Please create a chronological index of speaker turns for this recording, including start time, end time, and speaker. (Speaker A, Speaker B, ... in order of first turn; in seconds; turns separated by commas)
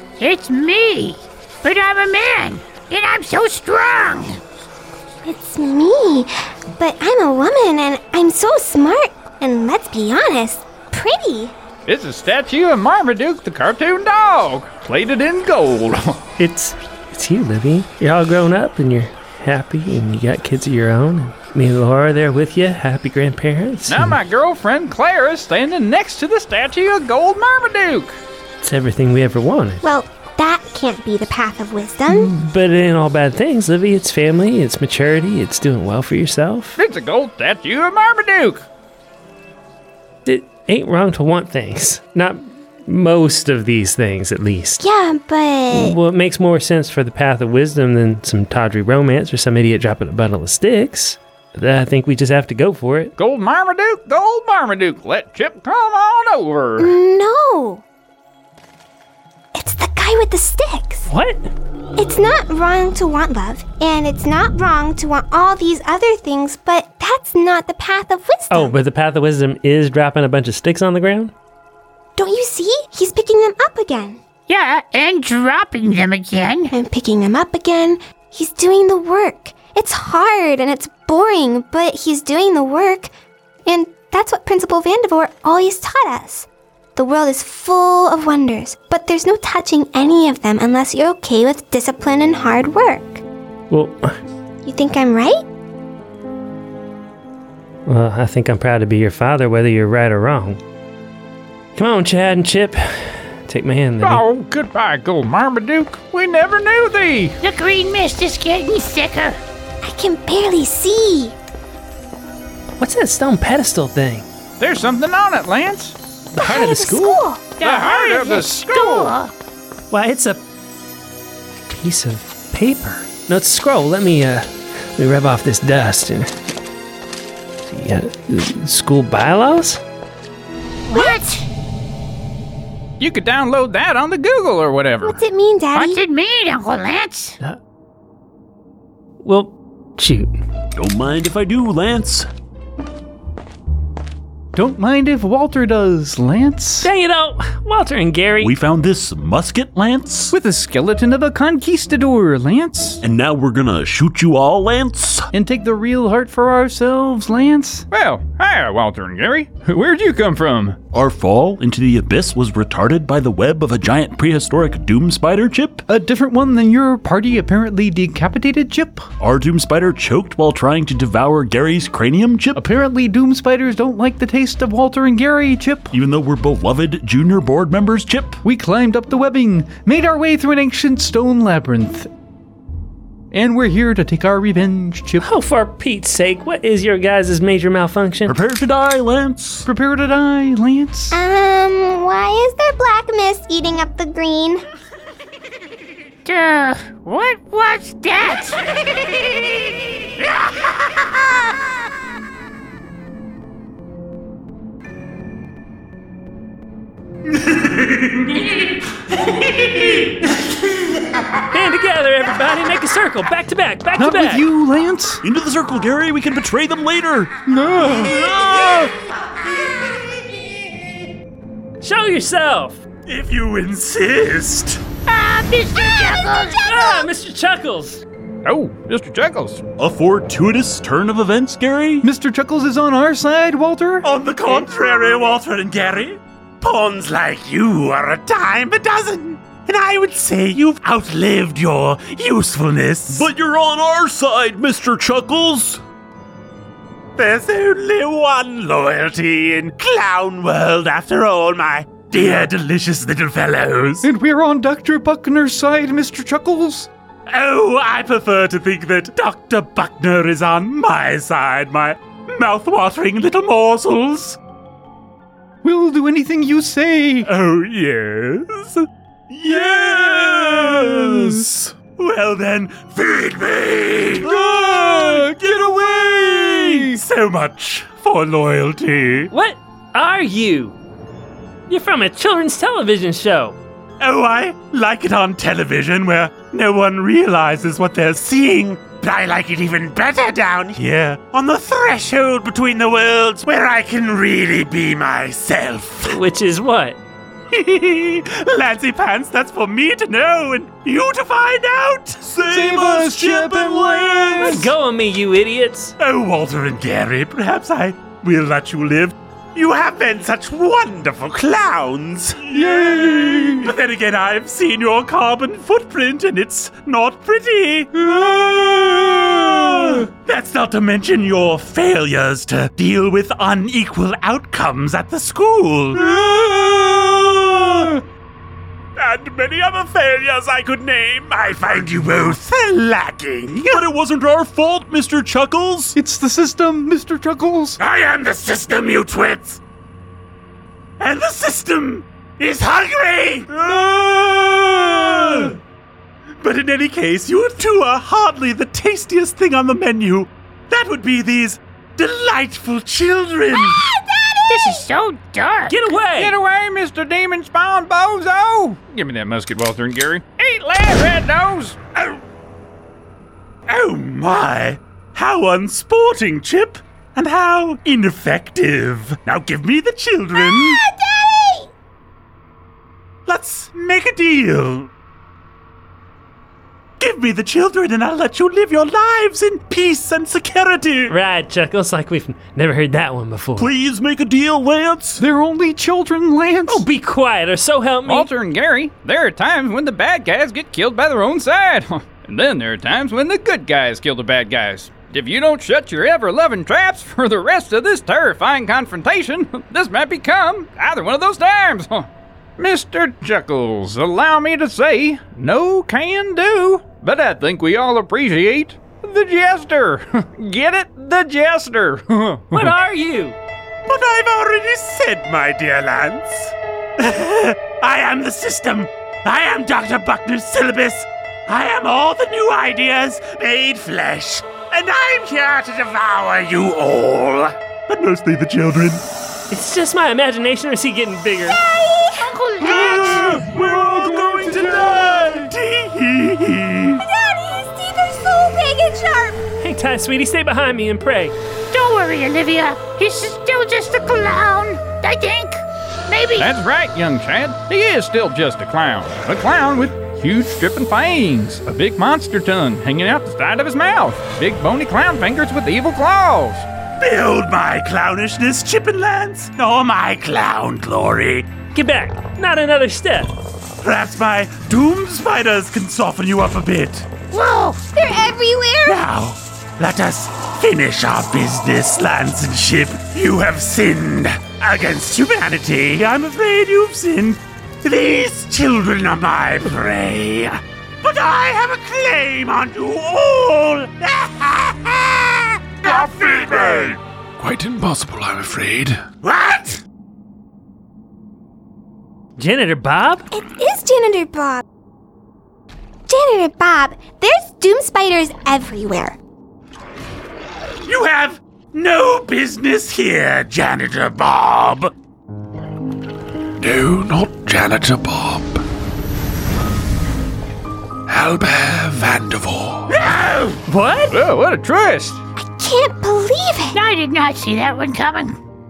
Speaker A: 0.2-4.4, Speaker B: 5.2-11.5, Speaker C: 11.8-16.2, Speaker D: 16.4-24.2, Speaker C: 23.9-28.2, Speaker D: 28.6-29.8, Speaker B: 29.8-32.3, Speaker D: 32.1-36.8, Speaker C: 36.8-38.6, Speaker D: 40.2-44.8, Speaker B: 44.8-46.0, Speaker D: 45.7-53.1, Speaker C: 53.2-56.9, Speaker B: 56.8-57.8, Speaker B: 59.5-61.1, Speaker D: 61.1-61.5, Speaker B: 62.0-68.8, Speaker D: 68.5-71.3, Speaker B: 72.2-74.2, Speaker A: 74.5-76.7, Speaker B: 76.7-83.1, Speaker B: 83.7-93.2, Speaker D: 93.7-94.1, Speaker B: 94.6-95.4, Speaker D: 97.9-100.6, Speaker D: 101.8-104.2, Speaker C: 104.0-107.4, Speaker A: 107.4-109.4, Speaker B: 109.8-111.3, Speaker D: 112.8-114.2, Speaker C: 114.6-116.0, Speaker D: 116.3-117.2, Speaker B: 116.3-117.5, Speaker A: 117.6-119.3, Speaker C: 117.6-119.1, Speaker D: 119.9-120.4, Speaker D: 121.7-126.3, Speaker D: 127.6-129.8, Speaker B: 130.9-131.2, Speaker A: 130.9-131.4, Speaker C: 133.0-135.2, Speaker B: 135.0-136.0, Speaker A: 135.7-137.3, Speaker D: 139.2-140.3, Speaker E: 140.8-142.3, Speaker F: 144.5-146.9, Speaker D: 146.8-148.5, Speaker E: 148.4-150.3, Speaker F: 150.3-153.0, Speaker E: 153.0-155.3, Speaker F: 155.3-157.8, Speaker C: 157.9-160.8, Speaker E: 160.9-165.8, Speaker F: 165.9-169.1, Speaker E: 169.2-172.6, Speaker F: 172.5-175.9, Speaker E: 175.9-178.4, Speaker F: 178.4-182.1, Speaker F: 183.3-185.2, Speaker D: 185.2-188.3, Speaker E: 188.2-189.7, Speaker F: 189.7-191.2, Speaker B: 191.1-194.6, Speaker A: 196.2-198.6, Speaker G: 207.5-208.4, Speaker D: 211.5-214.4, Speaker F: 214.0-215.2, Speaker E: 215.2-217.3, Speaker F: 217.5-218.4, Speaker E: 218.4-218.8, Speaker D: 221.8-222.8, Speaker G: 223.1-224.8, Speaker A: 225.1-226.7, Speaker D: 226.6-228.0, Speaker C: 228.4-229.6, Speaker E: 229.8-232.0, Speaker F: 232.0-234.0, Speaker G: 234.0-243.3, Speaker E: 243.1-245.8, Speaker G: 247.2-254.1, Speaker F: 254.0-256.9, Speaker G: 257.3-264.4, Speaker F: 265.6-267.3, Speaker G: 267.2-268.9, Speaker G: 269.5-270.1, Speaker E: 269.6-270.6, Speaker F: 270.1-271.4, Speaker G: 271.8-274.4, Speaker E: 274.3-276.8, Speaker F: 274.5-276.8, Speaker G: 276.8-279.3, Speaker D: 279.3-280.8, Speaker D: 281.7-283.6, Speaker G: 284.0-296.2, Speaker D: 296.1-297.0, Speaker G: 297.5-302.2, Speaker E: 302.2-304.5, Speaker F: 302.4-304.7, Speaker D: 304.4-305.9, Speaker G: 306.0-326.1, Speaker F: 312.5-313.7, Speaker F: 326.1-326.8, Speaker G: 331.2-333.8, Speaker E: 333.6-336.0, Speaker F: 335.9-337.8, Speaker G: 337.8-339.6, Speaker G: 341.0-345.5, Speaker G: 346.4-353.8, Speaker B: 353.5-354.8, Speaker A: 354.5-355.8, Speaker D: 355.7-356.4, Speaker C: 356.1-361.8, Speaker G: 361.9-362.2, Speaker G: 363.7-370.8, Speaker B: 370.3-371.7, Speaker G: 373.2-374.9, Speaker G: 377.0-381.1, Speaker D: 381.1-383.7, Speaker E: 383.6-385.2, Speaker F: 385.2-386.8, Speaker D: 386.7-388.3, Speaker C: 388.0-412.7, Speaker D: 412.5-413.4, Speaker G: 413.9-429.0, Speaker D: 429.5-431.6, Speaker B: 431.4-432.3, Speaker A: 432.2-433.4, Speaker G: 432.7-437.0, Speaker B: 436.9-439.4, Speaker D: 439.6-441.3, Speaker A: 441.7-446.5, Speaker C: 446.4-456.7, Speaker G: 457.0-461.5, Speaker D: 461.7-463.3, Speaker G: 463.8-467.1, Speaker A: 467.3-467.8, Speaker B: 467.9-469.1, Speaker G: 468.9-487.0, Speaker H: 487.4-489.0, Speaker G: 489.2-489.8, Speaker D: 492.4-493.2, Speaker B: 493.3-494.6, Speaker B: 496.1-499.2, Speaker G: 500.8-504.9, Speaker H: 506.6-508.6, Speaker H: 511.1-512.9, Speaker G: 512.9-513.6, Speaker D: 513.7-514.1, Speaker C: 514.1-515.2, Speaker B: 515.4-516.8, Speaker A: 516.7-518.4